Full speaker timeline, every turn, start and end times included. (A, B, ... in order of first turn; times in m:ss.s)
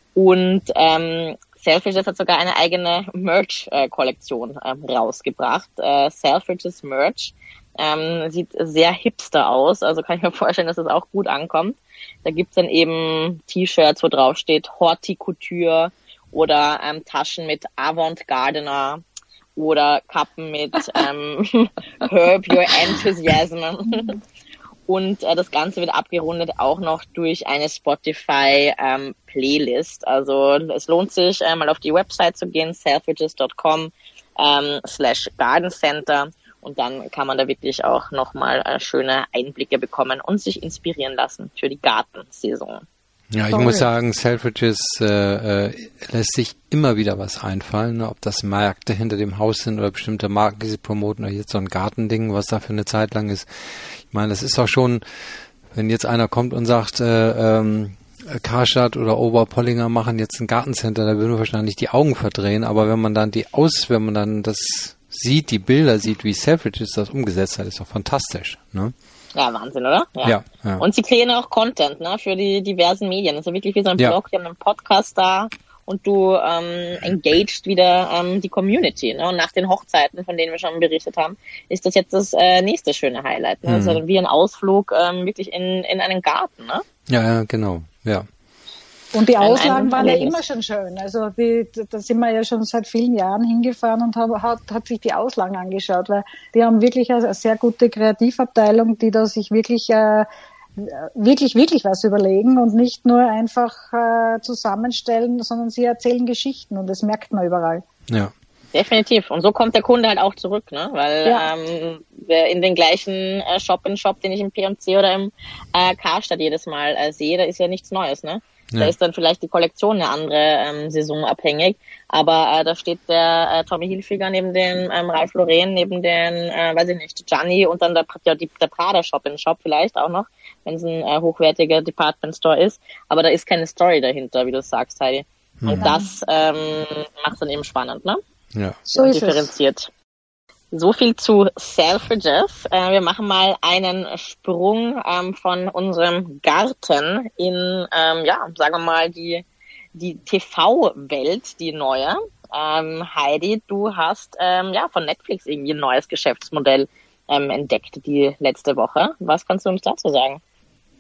0:00.2-0:19.0 A
0:19.6-0:24.2 A
0:24.9-0:42.8 A
0:43.3-0:55.0 B
0:43.5-0:43.9 C
0:55.7-1:08.9 B
1:09.4-1:26.8 A
1:10.2-1:10.8 B
1:23.7-1:24.0 B
1:27.1-1:28.3 B
1:29.1-1:47.8 C
1:29.4-1:30.4 A
1:48.7-2:18.2 A
1:51.2-1:51.5 C
2:15.6-2:15.9 B
2:15.8-2:16.1 C
2:18.9-2:19.5 C
2:19.0-2:19.9 A
2:20.7-2:40.4 A